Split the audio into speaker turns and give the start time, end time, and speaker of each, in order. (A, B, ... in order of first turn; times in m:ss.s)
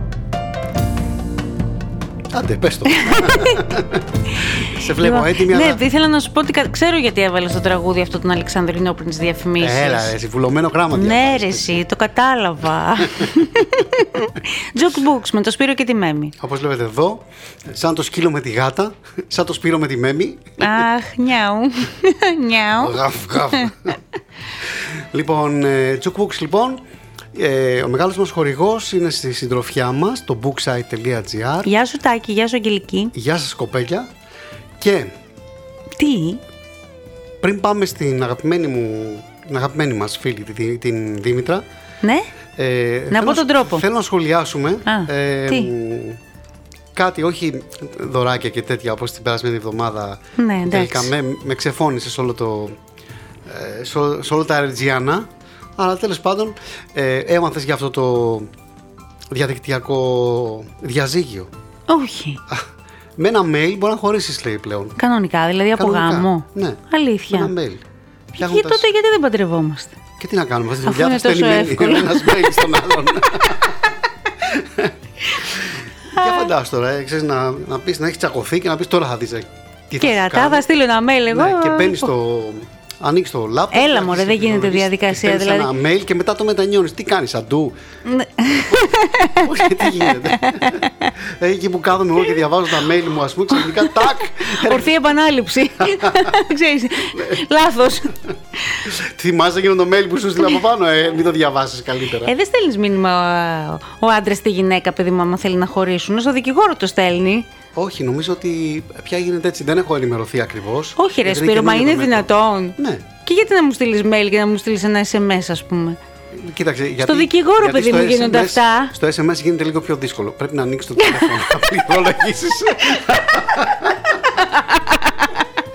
0:02.3-0:05.8 A
0:02.9-0:03.6 B
0:04.4-0:10.1 B
0:09.6-0:11.8 A
0:10.9-0:16.3 B
0:16.4-0:20.8 A
0:20.6-0:23.0 B
0:22.8-0:24.0 A
0:23.5-0:23.9 B
0:24.7-0:26.8 A
0:27.3-0:31.7 A
0:31.6-0:33.1 B
0:33.1-0:34.1 A
0:34.8-0:35.1 A
0:36.0-0:36.4 B
0:37.4-0:41.6 A
0:42.0-0:42.3 B
0:42.6-0:46.2 A
0:43.1-0:43.8 B
0:44.8-0:45.7 B
0:47.0-0:52.8 A
0:50.4-0:51.1 B
0:53.4-0:58.5 A
0:59.3-1:01.5 A
1:01.9-1:02.4 B
1:02.5-1:05.0 A
1:05.0-1:07.5 B
1:05.8-1:07.8 A
1:08.4-1:10.0 B
1:08.4-1:08.9 A
1:10.2-1:14.9 A
1:10.8-1:12.7 B
1:15.4-1:20.6 A
1:16.1-1:16.5 B
1:20.0-1:22.1 B
1:21.3-1:27.7 A
1:23.7-1:25.7 B
1:28.1-1:31.1 B
1:29.4-1:34.9 A
1:33.5-1:38.1 B
1:38.9-1:42.3 A
1:42.2-1:47.5 B
1:47.7-1:53.0 A
1:51.0-1:56.0 B
1:56.3-2:04.1 A
1:57.0-1:58.9 B
2:01.0-2:01.8 B
2:02.9-2:05.5 B